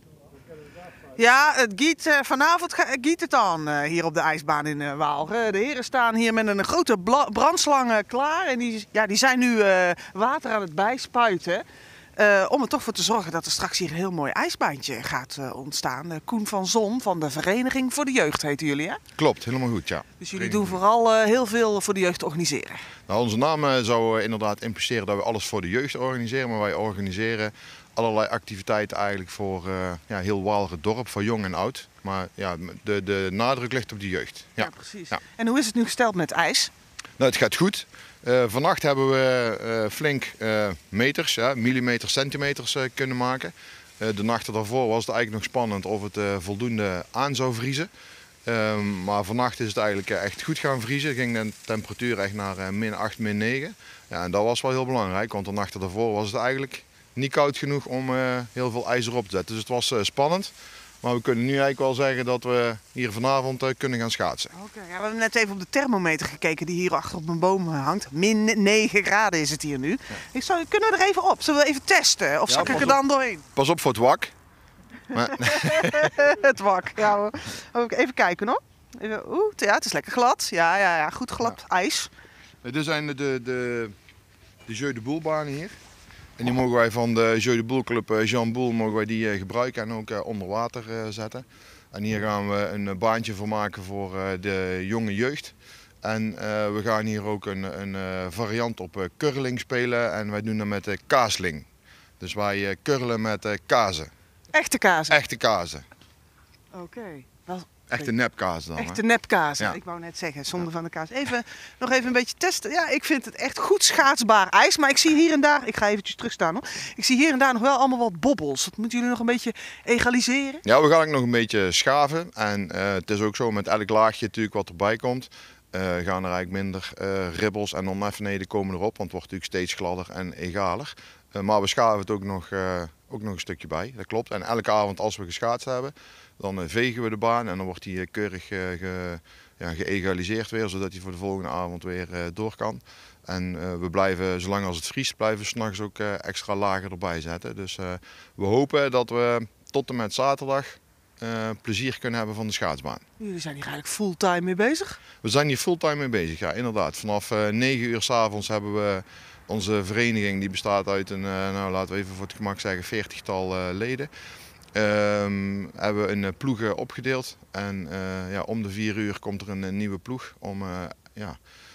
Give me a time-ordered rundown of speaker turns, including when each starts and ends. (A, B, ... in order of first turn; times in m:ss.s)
0:01.1-0:11.6 A
0:12.2-0:19.0 A
0:19.2-0:20.8 B
0:20.2-0:22.8 A
0:23.1-0:35.2 B
0:34.6-0:36.7 A
0:37.2-0:47.9 B
0:48.4-1:04.5 B
1:04.5-1:13.4 A
1:12.5-1:13.0 B
1:13.5-1:14.3 B
1:15.1-1:16.1 B
1:15.2-1:22.1 A
1:22.6-1:23.9 B
1:24.7-1:25.8 B
1:26.4-1:41.7 B
1:42.2-1:44.1 B
1:44.5-1:45.2 A
1:45.1-1:45.8 B
1:46.7-1:48.1 A
1:47.9-1:49.0 B
1:48.8-2:00.6 A
2:00.6-2:33.0 B
2:33.2-2:35.0 A
2:35.2-2:44.1 B
2:44.8-2:51.4 B